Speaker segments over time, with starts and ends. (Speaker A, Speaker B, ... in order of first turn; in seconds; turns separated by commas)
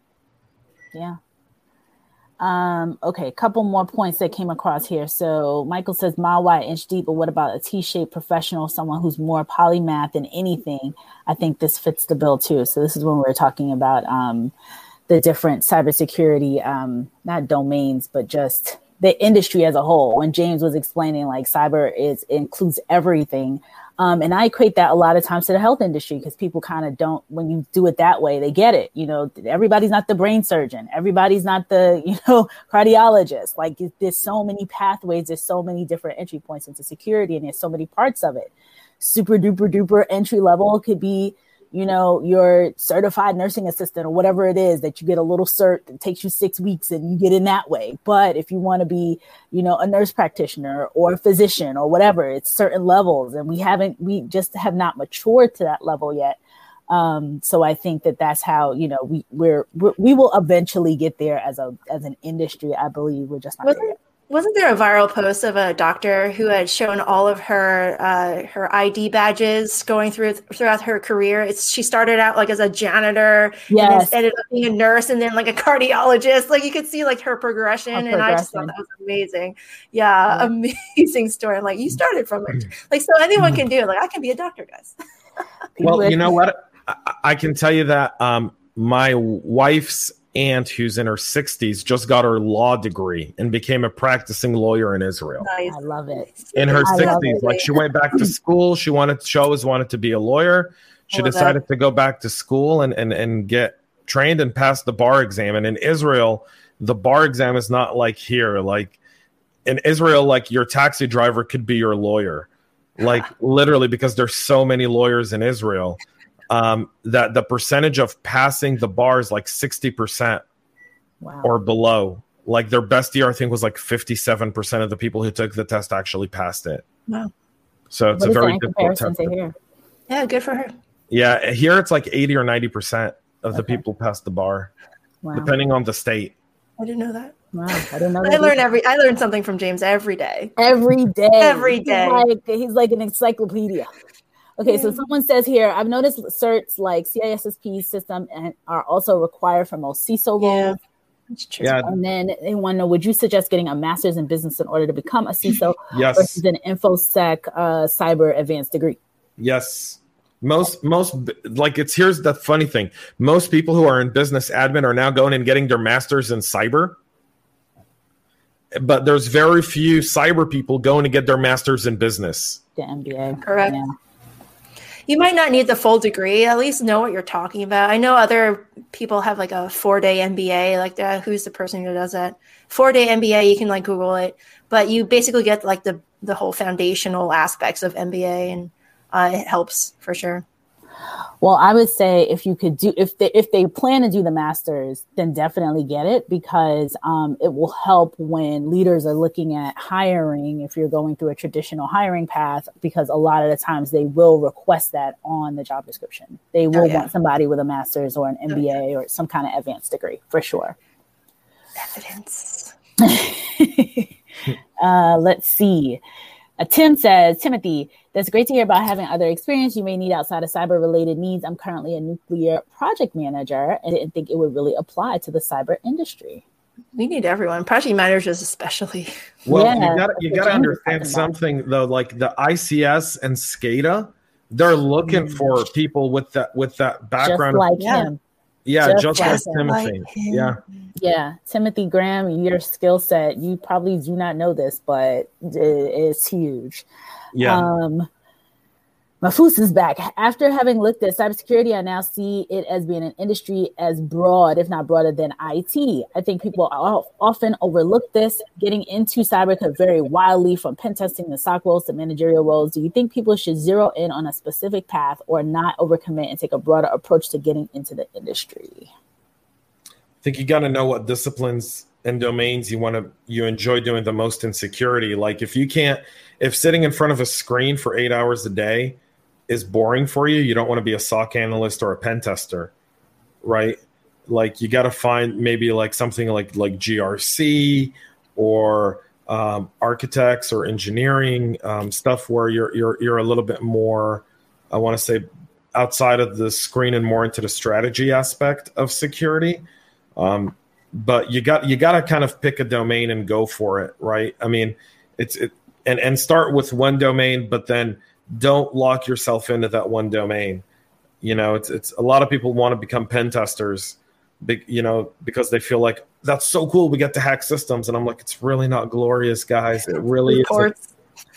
Speaker A: 2.4-14.5, Speaker A: 15.1-56.4, Speaker A: 56.9-63.9, Speaker B: 63.6-84.9, Speaker A: 73.7-74.2, Speaker A: 77.9-78.7, Speaker A: 85.8-86.3, Speaker C: 85.8-95.5, Speaker B: 95.4-97.7, Speaker A: 95.7-97.5, Speaker C: 96.5-109.0, Speaker B: 101.1-101.5, Speaker C: 109.6-120.4, Speaker A: 121.2-121.5, Speaker C: 121.4-126.8, Speaker C: 127.9-129.3, Speaker A: 128.1-129.5, Speaker B: 130.1-130.7, Speaker C: 131.1-134.7, Speaker A: 133.5-133.8, Speaker A: 135.2-135.5, Speaker C: 135.3-136.3, Speaker B: 136.8-140.5, Speaker A: 137.5-138.6, Speaker A: 140.6-143.9, Speaker B: 141.4-142.2, Speaker A: 144.6-150.7, Speaker B: 144.7-144.9, Speaker B: 150.4-150.8, Speaker B: 151.3-151.8, Speaker C: 151.6-151.9, Speaker A: 151.8-159.0, Speaker C: 155.9-156.4, Speaker C: 159.4-167.0, Speaker C: 168.8-172.6, Speaker A: 172.8-173.9, Speaker B: 173.4-173.8, Speaker B: 175.1-190.4, Speaker A: 191.4-210.8, Speaker B: 206.7-207.1, Speaker B: 211.8-212.7, Speaker A: 213.0-214.1, Speaker A: 214.8-216.0, Speaker A: 216.6-226.4, Speaker B: 226.9-229.1, Speaker C: 229.4-237.7, Speaker A: 229.5-231.3, Speaker A: 235.0-235.5, Speaker A: 237.2-238.2, Speaker B: 237.8-238.1, Speaker C: 238.6-240.6, Speaker A: 238.8-239.7, Speaker B: 239.2-240.6, Speaker A: 240.9-246.8, Speaker C: 247.3-247.7, Speaker A: 247.4-248.1, Speaker A: 249.2-268.9, Speaker C: 270.2-282.7, Speaker C: 283.4-299.6, Speaker C: 300.1-310.6, Speaker C: 311.2-320.7, Speaker B: 320.2-320.9